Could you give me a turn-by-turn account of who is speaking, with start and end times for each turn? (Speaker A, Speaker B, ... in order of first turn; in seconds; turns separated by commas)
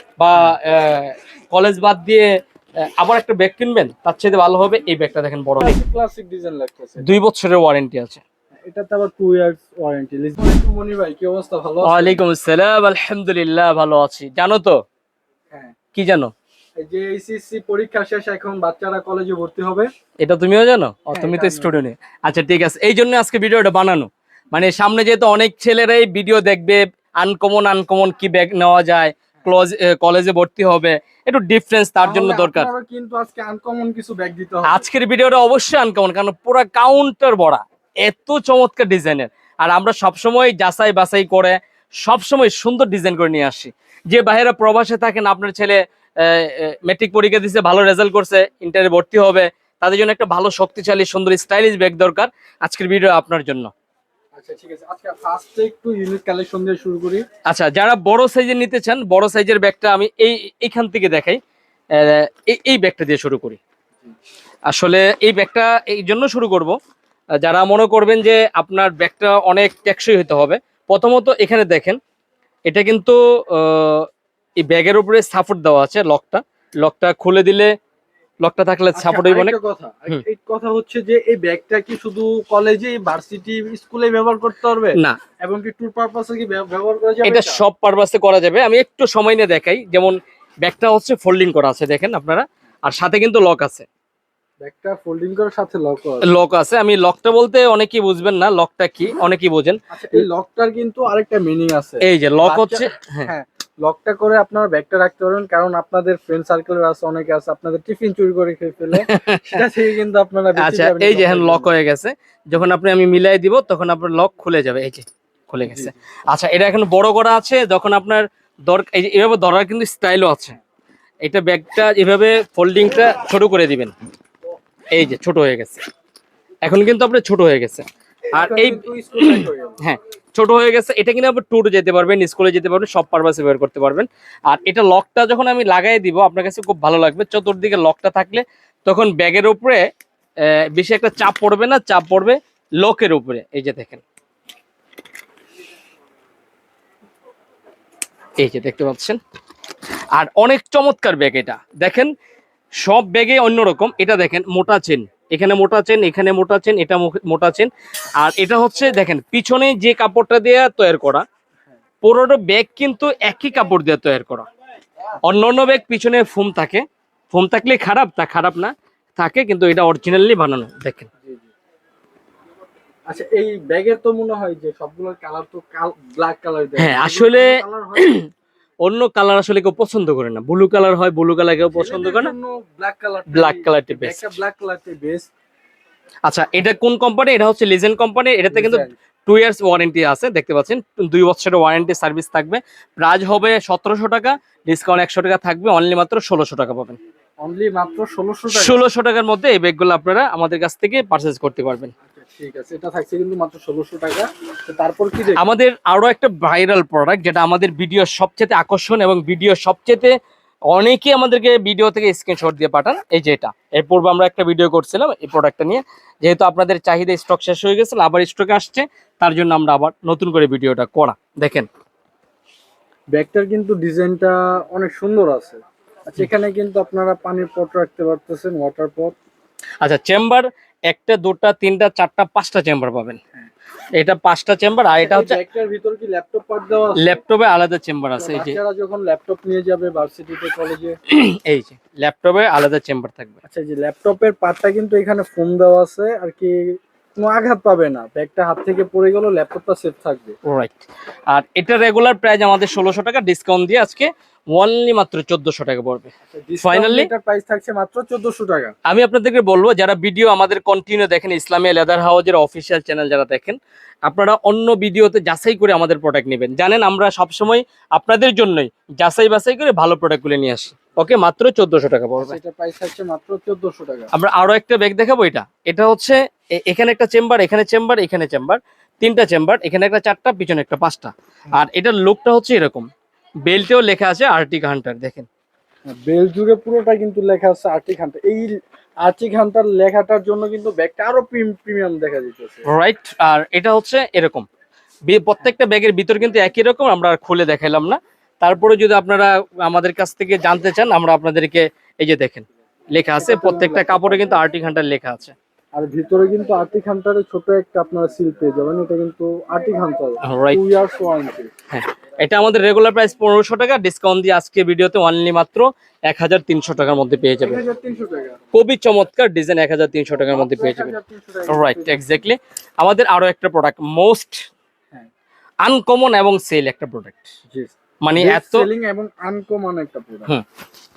Speaker A: 0.2-2.3, Speaker A: 2.8-5.8, Speaker B: 5.6-7.2, Speaker A: 7.0-8.2, Speaker B: 8.7-12.2, Speaker A: 11.8-14.8, Speaker A: 15.9-16.3, Speaker B: 16.8-19.9, Speaker A: 20.2-32.7, Speaker B: 21.1-21.7, Speaker B: 32.0-34.9, Speaker A: 34.6-53.7, Speaker B: 54.3-57.2, Speaker A: 57.5-61.4, Speaker A: 61.9-63.6, Speaker A: 64.7-66.8, Speaker A: 67.4-72.0, Speaker A: 72.7-77.7, Speaker A: 78.4-79.5, Speaker B: 78.9-87.6, Speaker A: 87.2-93.8, Speaker B: 94.6-96.3, Speaker A: 96.2-100.2, Speaker B: 99.9-111.7, Speaker A: 102.0-103.3, Speaker A: 108.9-109.6, Speaker A: 110.5-120.6, Speaker B: 115.6-115.9, Speaker A: 121.2-123.9, Speaker A: 124.9-125.8, Speaker A: 126.6-139.8, Speaker B: 128.3-129.8, Speaker A: 140.4-144.0, Speaker A: 148.4-149.2, Speaker A: 150.1-152.1, Speaker A: 152.8-161.2, Speaker A: 162.0-164.5, Speaker A: 165.2-171.1, Speaker B: 171.2-171.5, Speaker B: 173.1-178.2, Speaker A: 176.8-178.3, Speaker A: 178.8-182.3, Speaker B: 181.7-185.3, Speaker A: 183.3-184.3, Speaker A: 186.2-197.0, Speaker B: 188.5-188.9, Speaker B: 197.4-198.8, Speaker A: 198.5-201.9, Speaker B: 202.1-205.4, Speaker A: 205.3-210.2, Speaker A: 210.7-221.7, Speaker B: 223.1-229.1, Speaker A: 229.8-233.2, Speaker A: 233.9-235.4, Speaker B: 235.0-237.2, Speaker A: 237.0-238.6, Speaker B: 238.2-241.0, Speaker A: 241.1-243.3, Speaker B: 243.4-250.3, Speaker A: 250.4-256.1, Speaker B: 256.3-258.7, Speaker A: 256.6-257.1, Speaker A: 258.9-272.4, Speaker B: 272.2-274.1, Speaker A: 274.1-282.9, Speaker A: 283.4-285.3, Speaker B: 285.9-292.6, Speaker A: 292.7-294.4, Speaker A: 295.1-305.3, Speaker B: 303.2-304.4, Speaker B: 305.8-311.5, Speaker A: 310.2-310.6, Speaker A: 311.7-317.6, Speaker B: 317.4-318.4, Speaker A: 318.5-320.9, Speaker B: 320.2-322.2, Speaker A: 321.5-324.5, Speaker A: 325.6-327.3, Speaker B: 327.5-330.3, Speaker A: 328.0-328.7